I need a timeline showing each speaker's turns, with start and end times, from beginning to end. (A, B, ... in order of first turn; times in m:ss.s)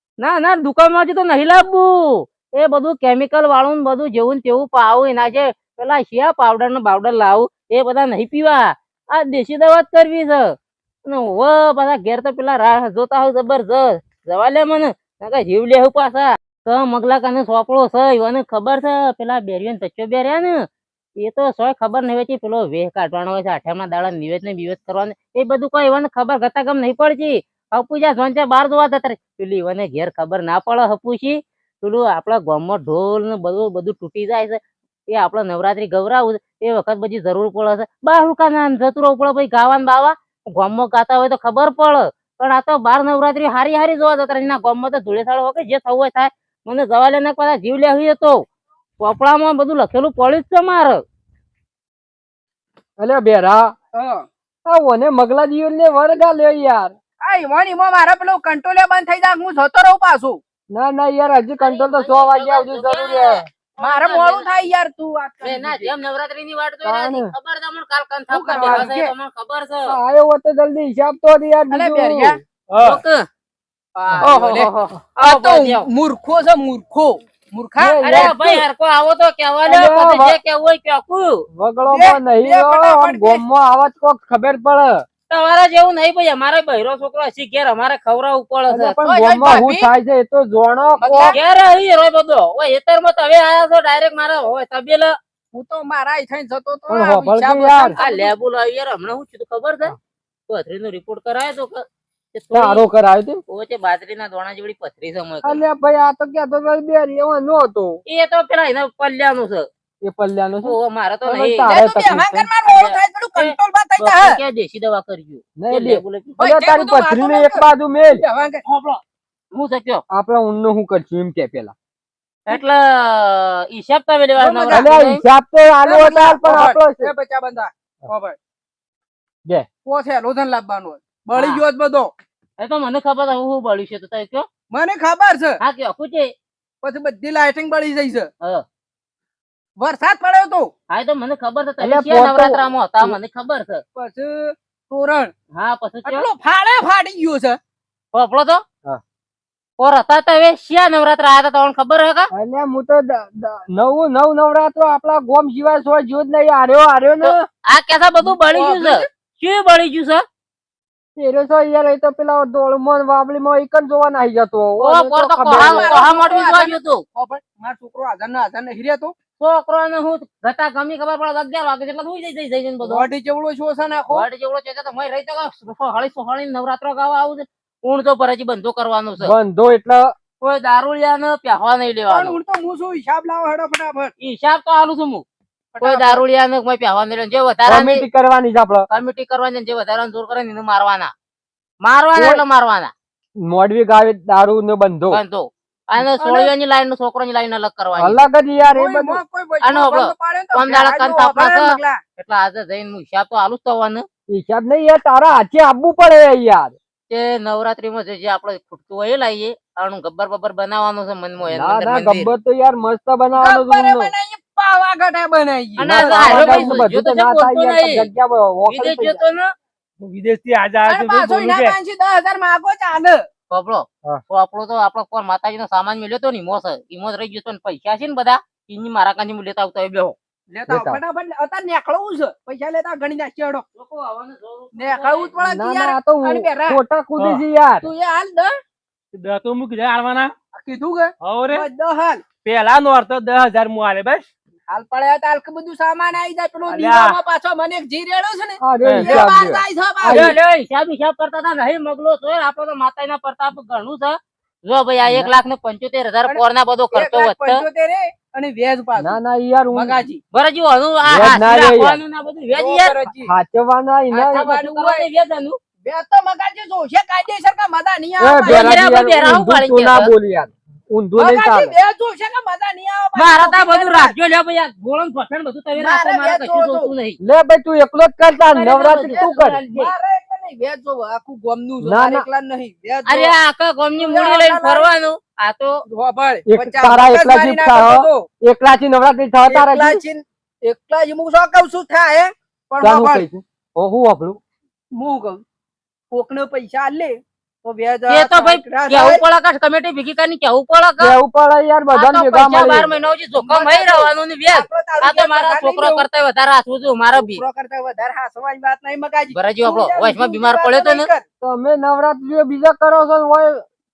0:00.2-0:20.6 A
0:21.2-0:34.6 A
0:35.1-0:48.4 A
0:49.0-0:51.0 A
0:53.0-0:53.7 B
0:53.9-0:54.2 C
0:54.7-0:57.0 B
0:57.2-1:00.4 C
1:00.7-1:03.5 B
1:01.6-1:04.5 A
1:03.8-1:05.9 C
1:05.4-1:10.0 A
1:06.8-1:07.3 B
1:08.3-1:09.1 C
1:09.9-1:12.4 B
1:11.7-1:12.4 C
1:12.7-1:13.0 D
1:12.8-1:13.3 A
1:14.0-1:15.9 A
1:14.2-1:18.5 C
1:17.8-1:18.4 B
1:18.0-1:21.4 A
1:19.7-1:20.4 B
1:21.5-1:25.1 B
1:21.9-1:23.4 C
1:25.3-1:29.0 A
1:28.7-1:31.4 B
1:29.0-1:29.9 C
1:31.0-1:31.4 C
1:31.3-1:35.2 A
1:35.5-1:38.3 C
1:36.9-1:38.0 B
1:37.9-1:40.0 A
1:40.5-1:42.8 A
1:42.5-1:43.4 B
1:43.5-1:45.6 A
1:45.4-1:48.0 B
1:48.1-1:49.7 A
1:50.0-1:52.5 B
1:50.6-1:51.7 A
1:51.7-1:54.4 C
1:52.6-1:56.4 A
1:55.6-1:58.2 B
1:56.4-1:58.6 C
1:58.7-1:59.0 A
1:59.5-2:00.0 A
2:00.1-2:01.7 B
2:02.5-2:05.2 A
2:04.4-2:04.9 C
2:04.7-2:07.1 B
2:05.8-2:08.4 C
2:09.9-2:12.1 C
2:11.4-2:11.6 A
2:12.6-2:14.5 A
2:14.7-2:15.6 C
2:15.6-2:16.3 A
2:16.8-2:18.3 C
2:19.8-2:20.7 C
2:20.9-2:23.8 A
2:21.8-2:23.2 B
2:24.0-2:25.3 C
2:25.5-2:26.3 A
2:26.1-2:27.6 C
2:28.1-2:28.6 A
2:29.8-2:32.3 A
2:32.4-2:37.5 B
2:37.2-2:40.2 A
2:38.2-2:39.1 C
2:41.2-2:46.0 B
2:44.8-2:47.0 A
2:45.5-2:49.1 C
2:49.4-2:53.1 A
2:52.8-2:54.3 C
2:54.1-2:59.3 A
2:59.2-3:00.1 B
3:00.4-3:02.4 A
3:02.1-3:04.1 C
3:04.2-3:05.2 A
3:05.8-3:06.2 C
3:05.8-3:08.0 A
3:07.7-3:08.9 B
3:08.9-3:11.1 A
3:11.8-3:12.9 A
3:12.2-3:12.4 B
3:13.4-3:15.2 B
3:15.1-3:18.2 A
3:16.0-3:16.5 C
3:18.0-3:19.2 B
3:18.7-3:22.0 C
3:19.6-3:24.0 A
3:24.3-3:26.8 B
3:27.1-3:32.3 A
3:31.4-3:34.1 B
3:33.4-3:36.8 C
3:35.8-3:38.1 A
3:35.8-3:39.2 B
3:38.7-3:39.5 A
3:40.0-3:41.8 D
3:40.9-3:43.2 C
3:43.5-3:50.2 A
3:50.5-3:53.6 C
3:50.7-3:51.0 B
3:53.8-3:55.4 A
3:54.8-3:56.8 C
3:55.4-3:57.9 B
3:57.8-3:58.5 C
3:59.1-4:00.3 D
4:00.5-4:02.3 C
4:01.2-4:01.7 D
4:02.4-4:04.3 D
4:04.7-4:10.3 C
4:06.7-4:07.2 D
4:08.6-4:10.4 B
4:08.8-4:09.3 D
4:10.1-4:17.6 A
4:15.1-4:15.4 B
4:16.9-4:19.2 C
4:19.0-4:20.0 B
4:19.7-4:20.2 C
4:20.3-4:23.0 A
4:21.1-4:22.0 B
4:22.5-4:23.3 C
4:23.2-4:24.5 B
4:24.1-4:25.1 C
4:24.4-4:25.6 A
4:25.8-4:28.8 C
4:28.2-4:31.8 B
4:28.4-4:30.1 A
4:31.2-4:34.1 C
4:33.2-4:37.2 A
4:35.8-4:36.9 C
4:37.2-4:39.6 B
4:38.5-4:39.9 A
4:38.8-4:43.3 C
4:41.8-4:42.3 B
4:43.1-4:45.8 A
4:44.0-4:44.9 C
4:45.9-4:48.3 C
4:46.5-4:50.0 B
4:49.5-4:53.3 C
4:52.8-4:54.4 B
4:55.0-4:55.4 C
4:56.1-4:59.2 C
4:58.1-5:01.2 A
5:01.0-5:02.9 B
5:01.9-5:07.4 A
5:03.4-5:06.1 C
5:07.1-5:11.2 C
5:09.3-5:11.1 A
5:11.4-5:13.6 B